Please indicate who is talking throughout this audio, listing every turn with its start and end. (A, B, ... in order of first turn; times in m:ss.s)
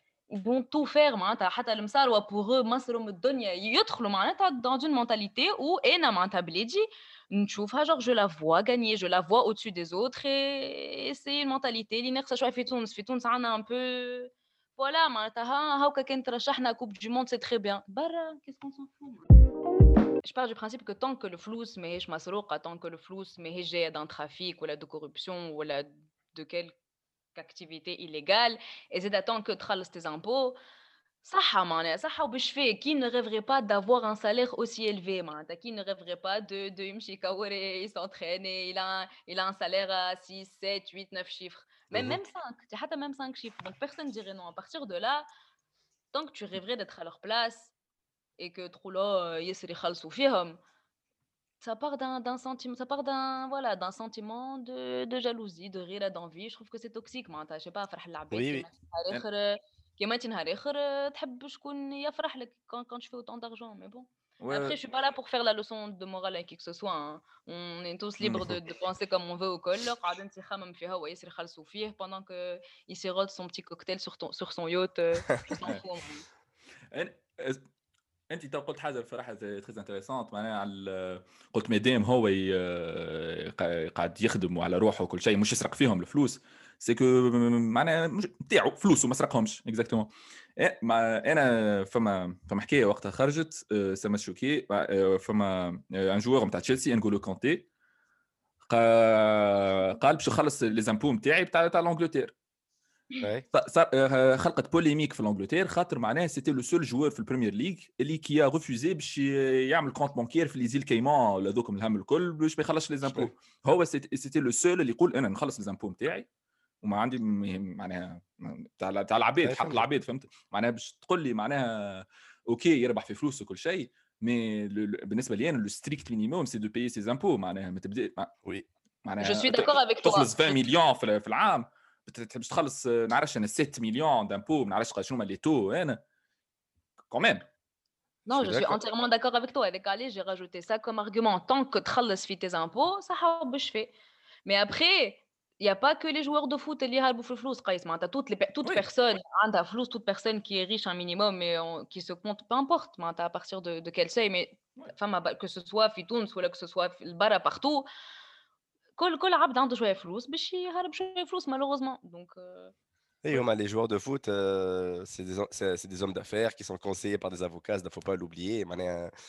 0:00.3-0:19.3 A
0:20.2-0:26.7 A
0:27.4-0:30.6 A
0:31.2-0:45.3 A
0:41.9-0:42.2 B
0:46.1-0:47.7 A
0:48.4-0:50.6 A
0:51.6-1:16.2 A
0:58.3-0:58.7 B
1:04.4-1:04.8 C
1:08.3-1:08.6 B
1:16.9-1:17.6 C
1:18.3-1:37.7 C
1:38.7-1:42.3 C
1:43.2-1:43.4 B
1:43.5-1:56.3 C
1:53.0-1:53.3 B
1:56.8-2:08.3 C
1:59.4-1:59.8 B
2:09.0-2:16.0 C
2:09.2-2:10.7 A
2:17.1-2:17.5 C
2:18.3-2:23.9 A
2:18.3-2:18.8 B
2:24.4-2:37.9 A
2:39.0-2:42.7 A
2:43.2-2:49.1 B